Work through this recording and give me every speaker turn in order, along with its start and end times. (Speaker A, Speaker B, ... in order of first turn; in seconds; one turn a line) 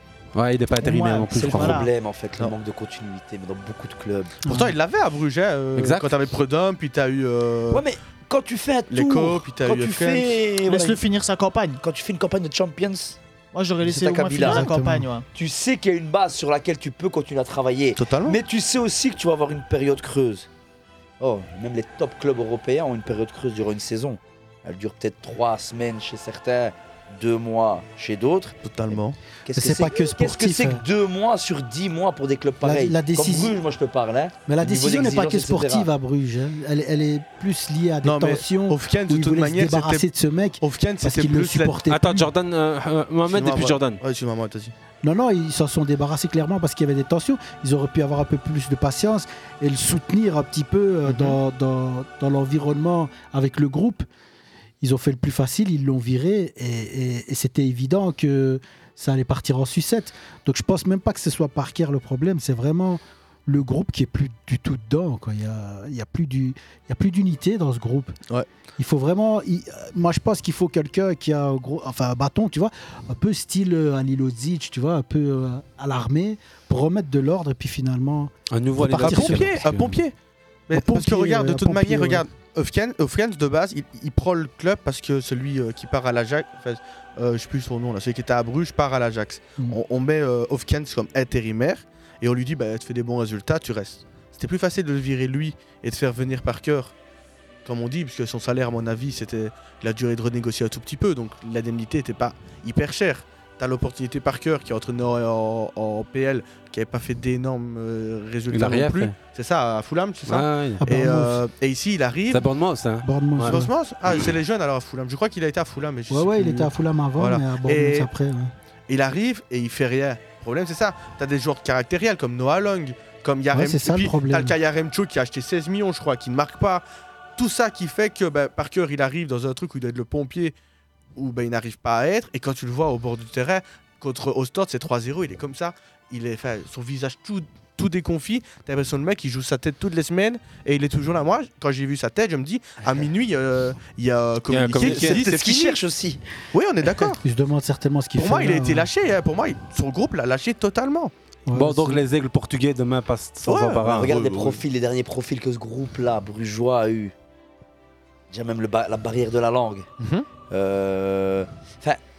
Speaker A: 0.3-1.9
Speaker B: 0.8-1.9
Speaker C: 1.3-4.4
Speaker D: 4.4-4.7
Speaker E: 4.5-7.8
Speaker A: 5.8-6.1
Speaker C: 7.7-11.0
Speaker E: 8.9-10.5
Speaker B: 10.7-11.8
Speaker C: 11.8-13.2
Speaker B: 13.5-15.3
Speaker C: 13.8-14.7
Speaker D: 14.4-15.1
Speaker C: 15.3-20.5
Speaker E: 17.9-18.4
Speaker C: 21.2-28.6
Speaker E: 28.6-29.2
Speaker C: 29.4-35.9
Speaker D: 29.5-30.8
Speaker D: 32.6-33.6
Speaker D: 34.5-42.3
Speaker E: 38.0-40.1
Speaker E: 40.6-41.9
Speaker F: 42.1-44.0
Speaker E: 43.3-44.7
Speaker D: 45.0-54.1
Speaker E: 51.0-51.4
Speaker D: 54.8-68.2
Speaker D: 68.8-79.9
Speaker A: 78.5-80.0
Speaker E: 78.8-80.1
Speaker E: 80.7-96.9
Speaker D: 80.7-82.2
Speaker E: 97.7-112.5
Speaker A: 108.5-109.1
Speaker A: 110.3-110.8
Speaker D: 110.8-111.4
Speaker A: 112.3-113.6
Speaker D: 113.0-113.7
Speaker E: 113.4-118.1
Speaker D: 116.1-118.5
Speaker E: 118.9-126.8
Speaker D: 123.5-124.6
Speaker E: 127.4-130.6
Speaker E: 131.2-145.8
Speaker C: 142.8-143.1
Speaker A: 144.5-145.2
Speaker F: 144.5-144.9
Speaker C: 144.8-146.2
Speaker E: 146.5-147.2
Speaker D: 147.2-148.9
Speaker E: 148.2-151.1
Speaker D: 151.5-152.0
Speaker A: 151.5-154.2
Speaker E: 153.4-154.6
Speaker C: 153.9-157.1
Speaker C: 158.3-159.9
Speaker E: 160.0-160.3
Speaker C: 160.5-162.0